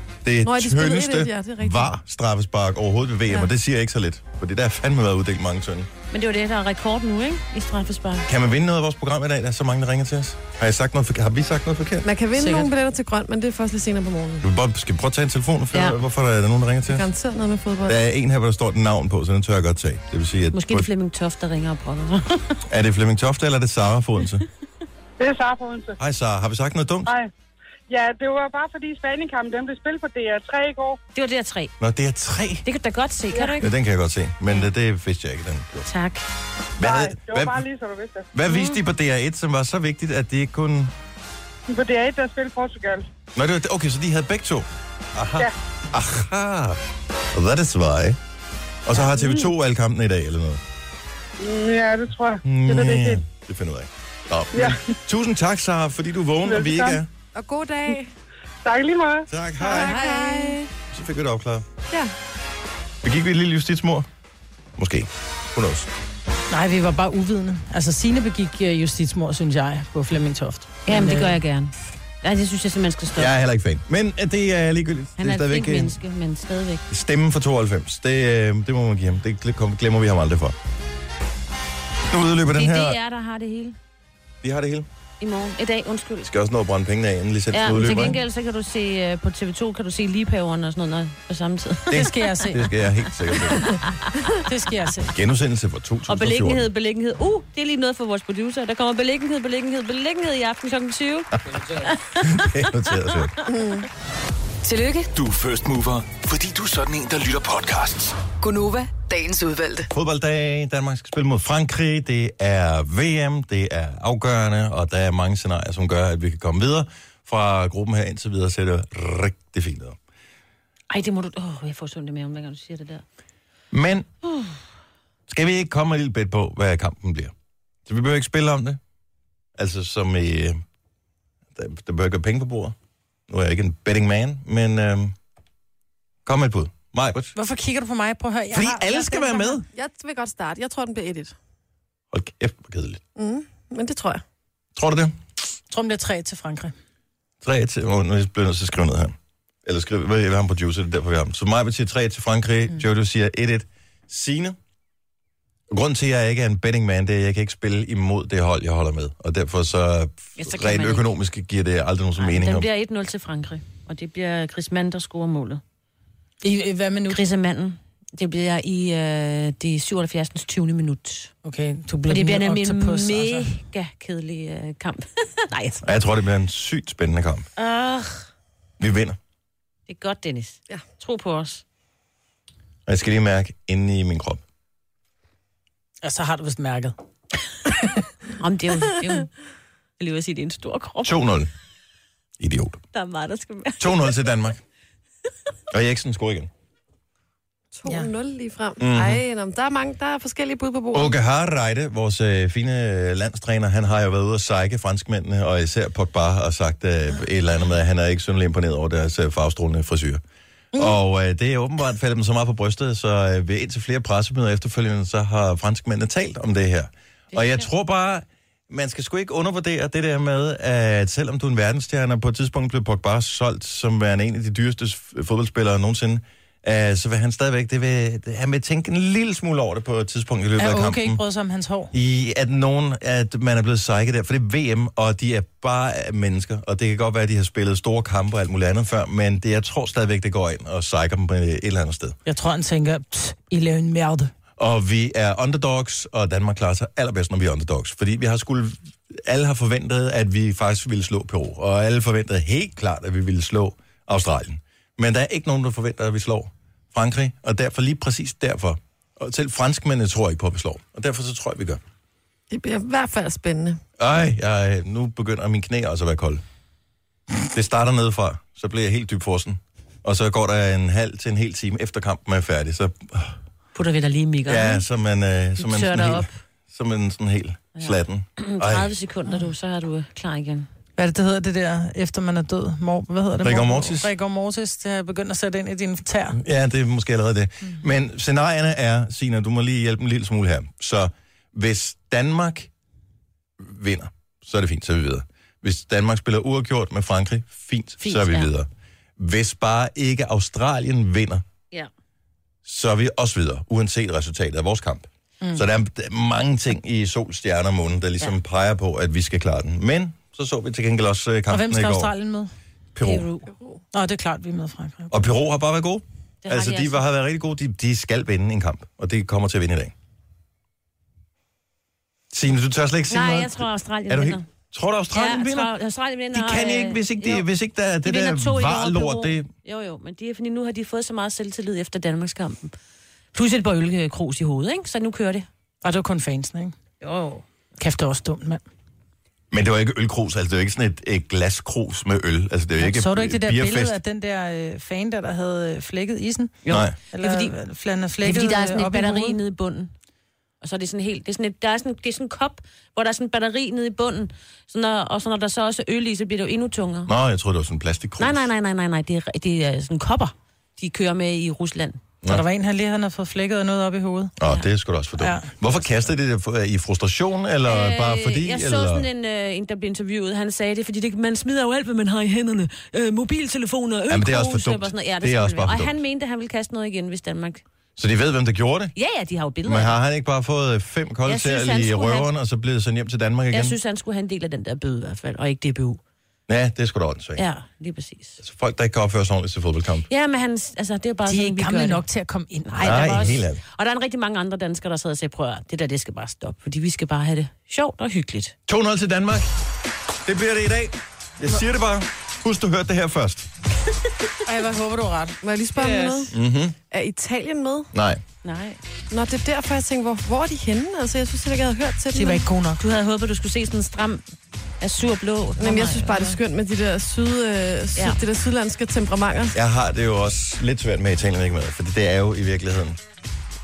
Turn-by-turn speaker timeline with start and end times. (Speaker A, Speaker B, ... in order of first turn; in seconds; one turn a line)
Speaker A: 0.2-5.9
Speaker B: 0.4-1.9
Speaker C: 6.1-8.3
Speaker A: 8.2-12.1
Speaker B: 12.0-14.4
Speaker D: 12.4-12.7
Speaker A: 14.4-17.1
Speaker C: 15.7-16.0
Speaker B: 16.9-18.0
Speaker A: 17.9-20.9
Speaker C: 20.5-22.6
Speaker A: 22.7-24.4
Speaker E: 25.2-26.0
Speaker A: 26.0-27.1
Speaker E: 27.0-27.3
Speaker E: 27.9-31.0
Speaker C: 31.1-31.7
Speaker A: 31.8-32.6
Speaker C: 32.6-33.6
Speaker E: 33.3-33.6
Speaker A: 33.6-35.9
Speaker C: 35.9-36.2
Speaker A: 36.8-37.6
Speaker E: 36.8-38.3
Speaker A: 38.3-40.9
Speaker C: 38.5-38.8
Speaker E: 41.7-43.1
Speaker A: 43.3-46.8
Speaker A: 47.3-48.2
Speaker A: 48.8-50.6
Speaker E: 49.0-49.4
Speaker E: 51.4-53.2
Speaker A: 52.4-57.1
Speaker E: 54.5-54.8
Speaker E: 56.4-57.0
Speaker B: 57.3-58.1
Speaker E: 58.6-59.3
Speaker A: 59.3-60.0
Speaker B: 59.6-60.7
Speaker D: 59.6-60.6
Speaker A: 60.9-61.6
Speaker A: 63.0-64.1
Speaker A: 64.8-65.9
Speaker D: 66.5-71.4
Speaker C: 70.9-73.3
Speaker A: 73.2-76.0
Speaker C: 75.2-76.8
Speaker A: 76.9-80.5
Speaker A: 82.1-83.0
Speaker C: 82.5-83.8
Speaker A: 84.4-84.8
Speaker C: 85.2-86.3
Speaker A: 86.2-88.2
Speaker C: 87.5-92.2
Speaker D: 87.7-88.1
Speaker A: 91.9-93.8
Speaker D: 91.9-92.6
Speaker C: 93.3-94.3
Speaker D: 94.4-95.1
Speaker A: 95.1-96.7
Speaker C: 96.1-101.3
Speaker C: 101.8-102.5
Speaker A: 102.2-103.4
Speaker B: 103.5-103.9
Speaker F: 104.6-105.1
Speaker G: 105.1-108.2
Speaker F: 108.4-109.9
Speaker A: 109.9-120.0
Speaker C: 120.9-123.0
Speaker A: 123.7-124.1
Speaker C: 124.2-124.6
Speaker A: 125.3-127.3
Speaker A: 127.8-128.8
Speaker A: 129.6-130.6
Speaker A: 131.5-132.7
Speaker A: 133.3-135.1
Speaker A: 136.2-137.3
Speaker D: 137.3-139.6
Speaker A: 138.5-139.6
Speaker B: 139.6-141.3
Speaker A: 142.1-143.0
Speaker B: 143.2-144.2
Speaker A: 144.8-145.2
Speaker D: 145.7-146.7
Speaker A: 147.4-154.6
Speaker A: 155.7-162.7
Speaker C: 160.4-161.1
Speaker C: 162.2-165.6
Speaker D: 166.4-167.2
Speaker C: 167.1-171.3
Speaker D: 171.4-173.5
Speaker C: 172.1-175.9
Speaker A: 175.8-177.5
Speaker C: 177.6-178.3
Speaker A: 178.8-179.2
Speaker C: 179.9-181.6
Speaker A: 182.8-184.4
Speaker D: 186.0-186.9
Speaker C: 188.4-189.3
Speaker C: 190.0-191.2
Speaker A: 191.0-191.5
Speaker A: 192.4-192.8
Speaker C: 192.9-194.2
Speaker A: 193.8-194.6
Speaker A: 195.7-196.5
Speaker B: 197.7-201.1
Speaker A: 198.8-199.2
Speaker A: 200.9-210.2
Speaker A: 210.7-231.2
Speaker C: 217.3-217.6
Speaker D: 230.6-231.9
Speaker A: 231.9-242.2
Speaker D: 242.2-244.3
Speaker A: 244.6-261.8
Speaker B: 262.5-263.8
Speaker A: 264.0-266.4
Speaker A: 267.5-273.4
Speaker C: 273.7-274.8
Speaker A: 274.4-278.9
Speaker C: 275.6-276.3
Speaker C: 277.8-280.7
Speaker D: 281.0-286.4
Speaker A: 283.4-284.1
Speaker A: 286.3-292.7
Speaker A: 293.6-301.4
Speaker C: 298.0-298.5
Speaker A: 302.6-312.1
Speaker D: 311.5-312.5
Speaker A: 312.9-313.3
Speaker C: 313.0-313.5
Speaker D: 313.9-315.1
Speaker A: 315.1-319.9
Speaker C: 316.4-317.0
Speaker A: 322.3-325.7
Speaker C: 323.1-324.4
Speaker C: 325.1-327.5
Speaker A: 326.3-329.5
Speaker C: 328.0-332.7
Speaker C: 333.3-335.5
Speaker D: 335.8-336.8
Speaker C: 337.0-337.4
Speaker D: 337.8-338.6
Speaker A: 339.5-344.0
Speaker D: 342.8-346.6
Speaker C: 346.6-347.6
Speaker A: 346.7-346.9
Speaker D: 347.1-349.4
Speaker C: 348.2-349.9
Speaker C: 350.6-357.1
Speaker A: 357.1-358.5
Speaker C: 358.2-362.0
Speaker D: 362.3-364.3
Speaker A: 364.4-369.1
Speaker D: 365.2-365.5
Speaker C: 367.6-377.6
Speaker A: 374.1-376.0
Speaker A: 378.0-378.9
Speaker C: 378.9-380.0
Speaker A: 379.6-383.8
Speaker C: 381.2-382.3
Speaker C: 383.5-386.0
Speaker A: 386.5-387.4
Speaker C: 387.4-388.4
Speaker A: 388.4-390.1
Speaker C: 390.1-392.0
Speaker D: 391.3-393.2
Speaker C: 392.7-398.5
Speaker A: 392.8-393.6
Speaker A: 398.7-399.5
Speaker A: 400.2-403.5
Speaker D: 404.4-405.4
Speaker B: 405.4-406.3
Speaker C: 405.8-406.3
Speaker A: 406.3-406.7
Speaker B: 406.9-407.9
Speaker A: 407.9-408.2
Speaker C: 408.4-408.8
Speaker B: 409.1-412.4
Speaker D: 412.1-412.8
Speaker C: 412.8-414.2
Speaker C: 414.8-416.4
Speaker B: 415.6-419.6
Speaker C: 417.9-418.2
Speaker A: 419.5-423.0